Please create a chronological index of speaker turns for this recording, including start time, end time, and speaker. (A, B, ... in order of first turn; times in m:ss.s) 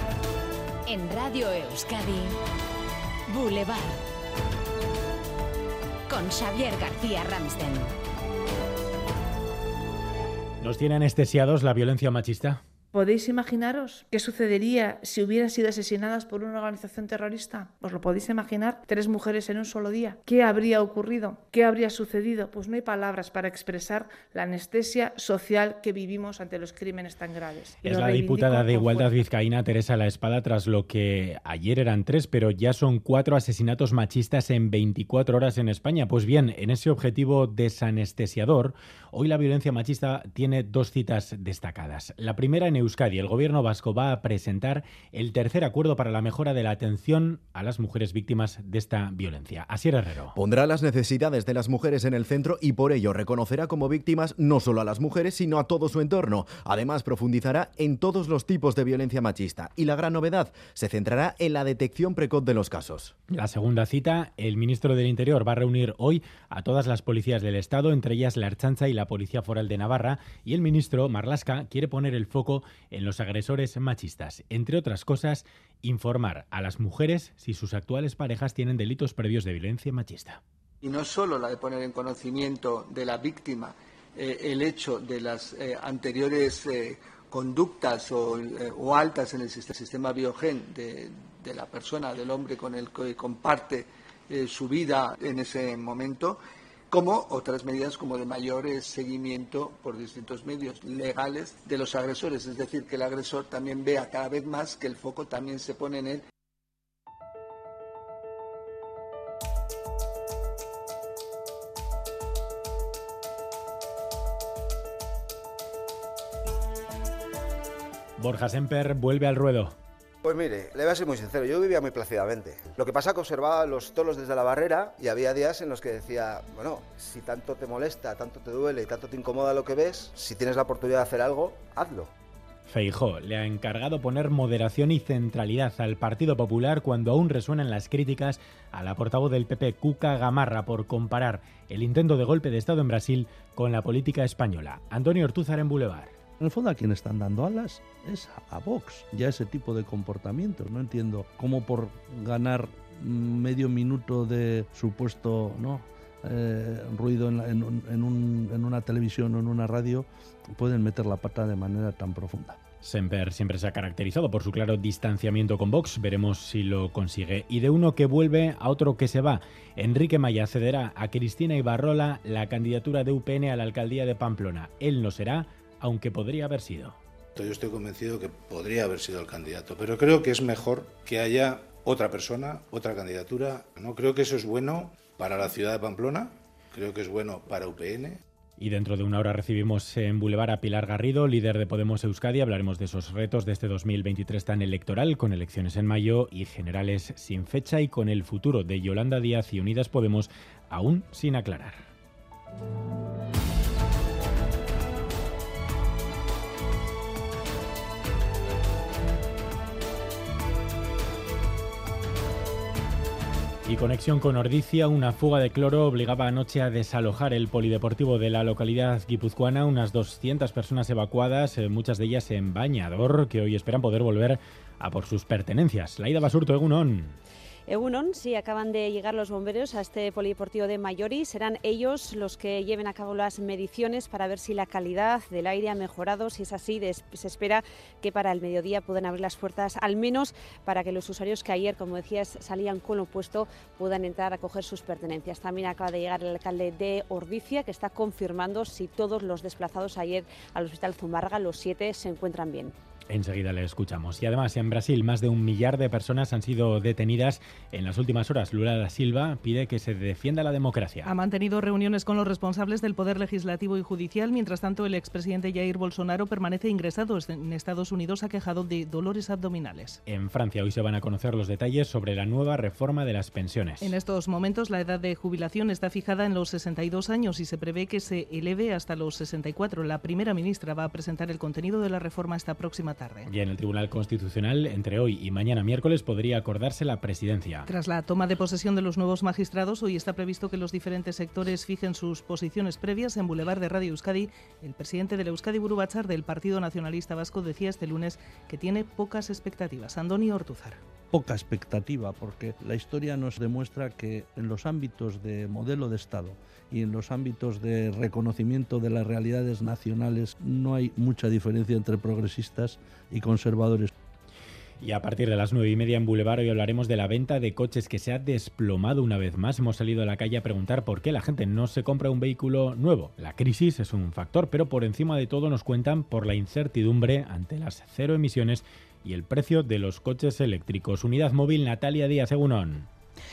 0:00.8-0:02.4 A
0:03.3-0:04.0 A
0:06.1-0:07.9 A
0:10.6-0:12.6 B
0:12.9-0:29.3 C
0:27.8-0:50.3 B
0:50.3-1:03.1 D
1:03.3-1:20.4 B
1:20.8-1:36.4 E
1:36.9-1:46.2 E
1:58.2-1:59.7 B
2:00.2-2:12.1 F
2:12.7-2:26.1 B
2:26.4-2:42.6 G
2:42.8-2:57.0 B
2:57.3-3:08.2 H
3:08.6-3:21.8 B
3:33.7-3:47.2 B
3:47.7-4:12.7 I
4:13.1-4:21.1 B
4:21.0-4:30.0 J
4:30.1-4:34.0 B
4:33.8-4:43.3 J
4:43.2-4:47.7 B
4:47.7-5:00.8 J
5:01.1-5:13.9 G
5:14.8-5:32.9 B